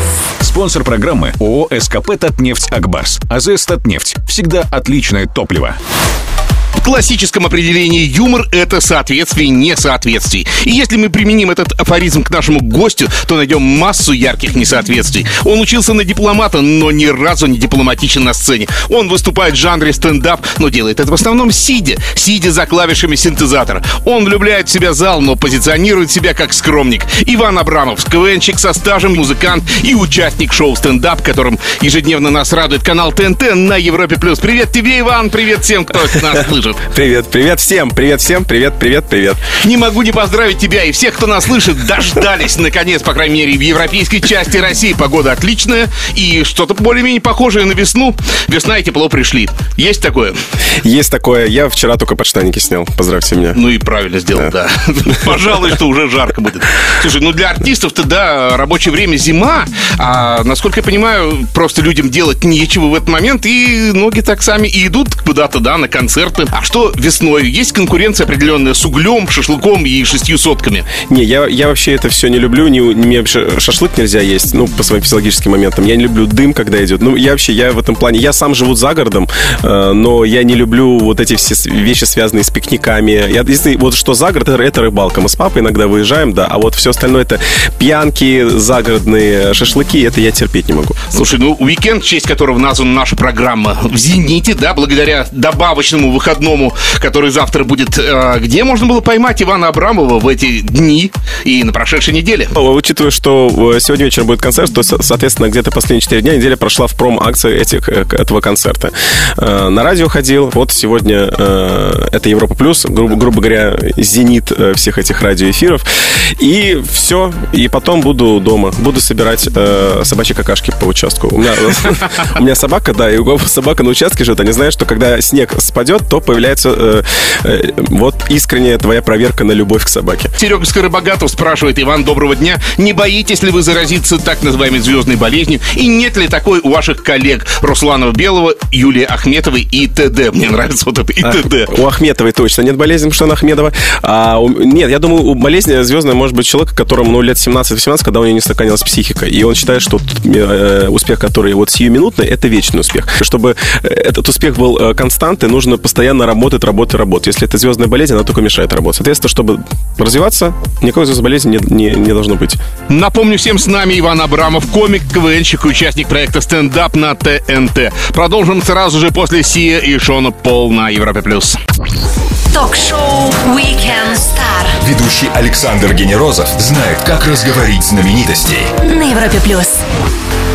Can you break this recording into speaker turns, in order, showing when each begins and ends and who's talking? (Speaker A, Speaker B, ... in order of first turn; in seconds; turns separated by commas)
Speaker A: 0.4-5.8, Speaker B: 6.8-36.9, Speaker C: 36.9-39.5, Speaker B: 39.5-50.4, Speaker C: 50.8-53.6, Speaker B: 53.5-70.9, Speaker C: 71.0-91.1, Speaker B: 91.1-102.5, Speaker C: 102.5-115.8, Speaker C: 116.4-130.3, Speaker B: 130.4-141.7, Speaker C: 141.2-162.6, Speaker B: 162.9-171.6, Speaker D: 172.5-174.8, Speaker E: 174.8-178.7, Speaker D: 178.8-179.8